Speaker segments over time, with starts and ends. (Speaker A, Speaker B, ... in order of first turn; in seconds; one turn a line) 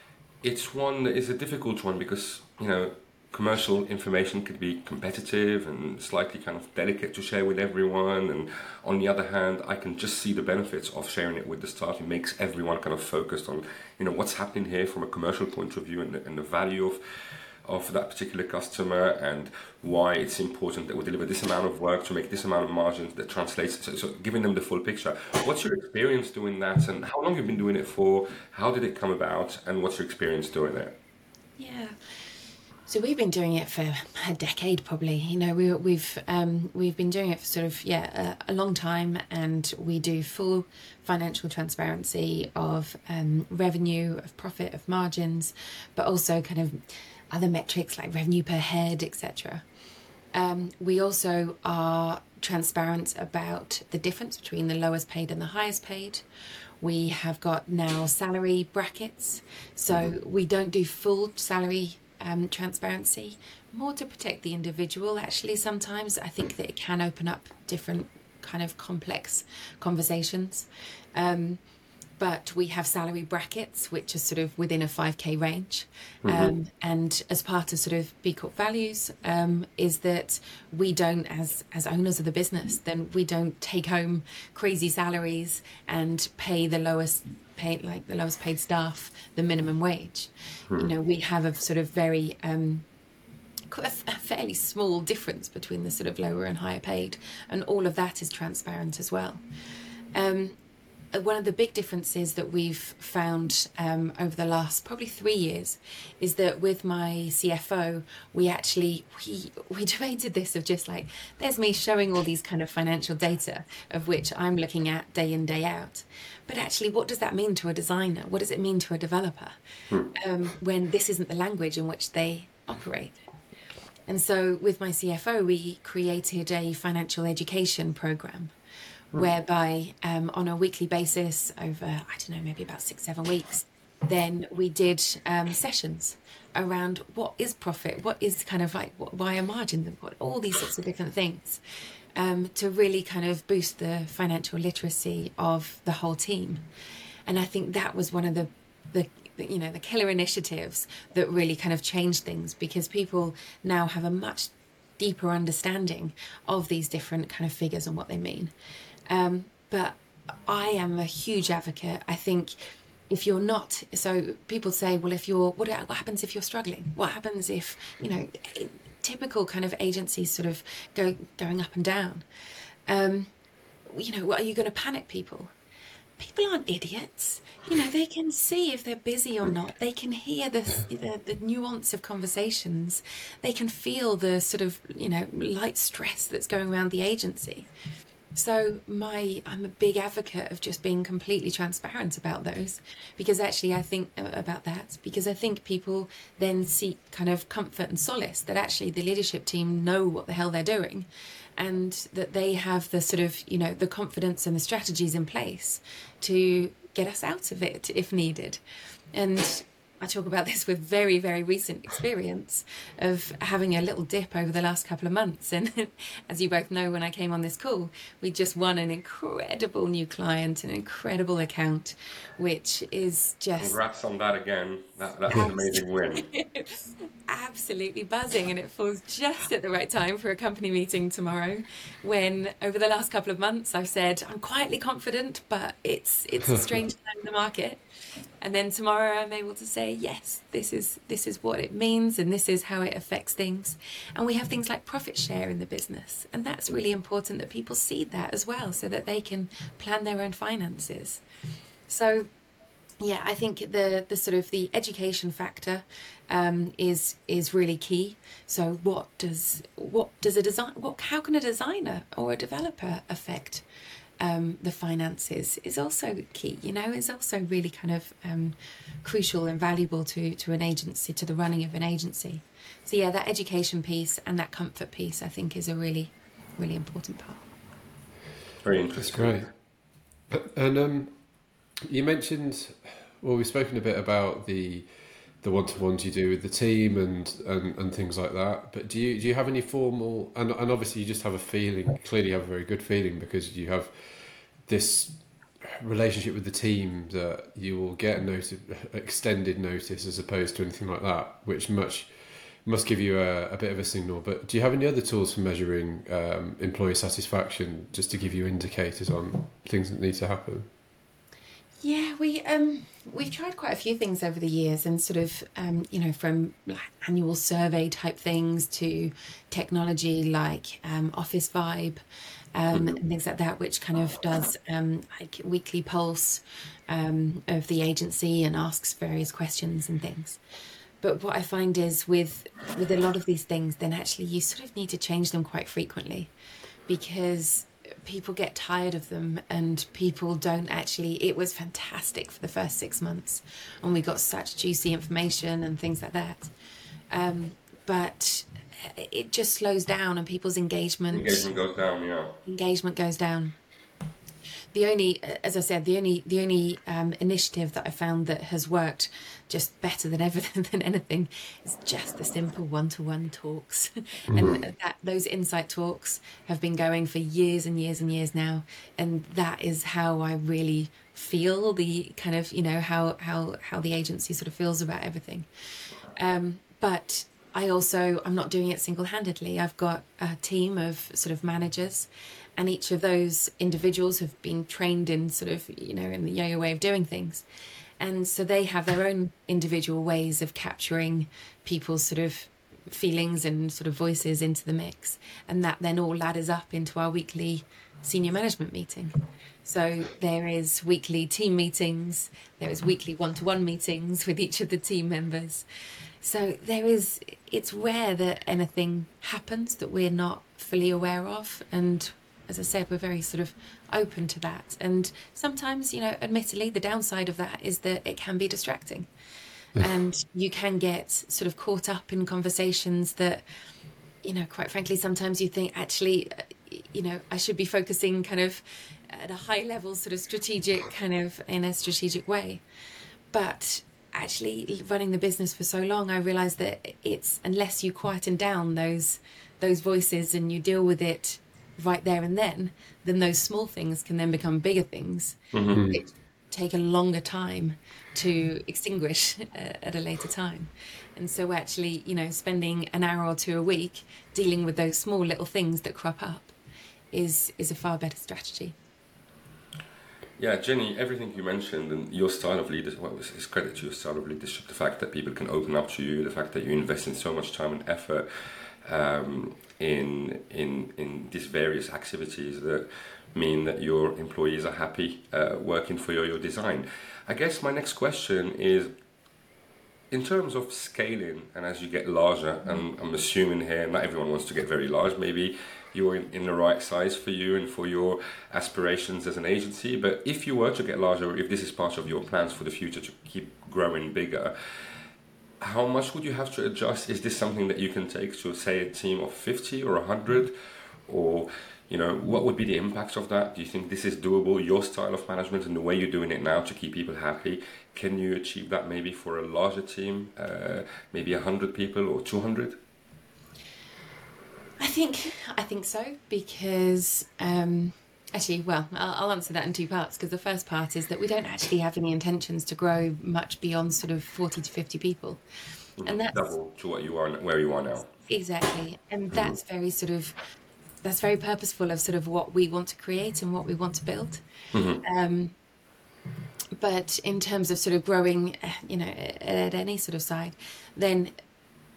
Speaker A: 0.4-17.0
Speaker A: 17.6-31.0
Speaker B: 31.6-31.9
Speaker B: 32.9-49.6
Speaker B: 50.3-56.2
Speaker B: 56.8-71.6
Speaker A: 59.9-60.1
Speaker B: 72.2-92.9
Speaker A: 76.2-76.5
Speaker B: 93.7-99.4
Speaker B: 100.1-100.6
Speaker B: 101.1-119.6
Speaker B: 120.1-123.2
Speaker B: 124.1-128.5
Speaker B: 129.1-141.6
Speaker B: 142.2-146.6
Speaker B: 147.3-158.5
Speaker B: 159.1-162.6
Speaker B: 163.1-172.2
Speaker B: 172.9-173.3
Speaker B: 173.9-175.5
Speaker B: 176.2-187.7
Speaker B: 188.3-201.1
Speaker B: 201.6-208.6
Speaker B: 209.1-223.8
Speaker A: 223.6-226.3
Speaker B: 225.3-237.8
Speaker B: 238.4-251.2
Speaker B: 251.9-252.3
Speaker B: 253.0-263.6
Speaker B: 264.2-277.4
Speaker A: 278.6-279.5
Speaker C: 278.9-279.5
Speaker C: 280.3-281.1
Speaker C: 281.8-284.9
Speaker C: 285.4-293.9
Speaker C: 294.6-302.1
Speaker C: 302.6-310.7
Speaker B: 311.8-322.0
Speaker B: 322.6-330.4
Speaker B: 331.0-336.3
Speaker B: 336.9-346.5
Speaker B: 347.1-351.5
Speaker A: 351.1-352.4
Speaker B: 352.4-353.6
Speaker B: 354.7-375.5
Speaker A: 364.4-364.6
Speaker B: 376.1-387.4
Speaker B: 388.0-405.6
Speaker B: 406.2-419.1
Speaker B: 419.8-423.4
Speaker B: 424.2-432.6
Speaker B: 433.3-456.5
Speaker A: 445.5-445.8
Speaker C: 445.7-446.0
Speaker B: 457.1-458.8
Speaker A: 460.4-478.9
Speaker A: 480.1-494.5
Speaker A: 495.6-500.6
Speaker A: 501.1-512.8
Speaker B: 514.8-525.4
Speaker A: 526.0-528.1
Speaker B: 526.0-526.5
Speaker B: 528.3-530.4
Speaker A: 529.3-529.6
Speaker B: 531.0-534.4
Speaker A: 534.7-535.0
Speaker B: 535.0-535.5
Speaker B: 536.8-541.3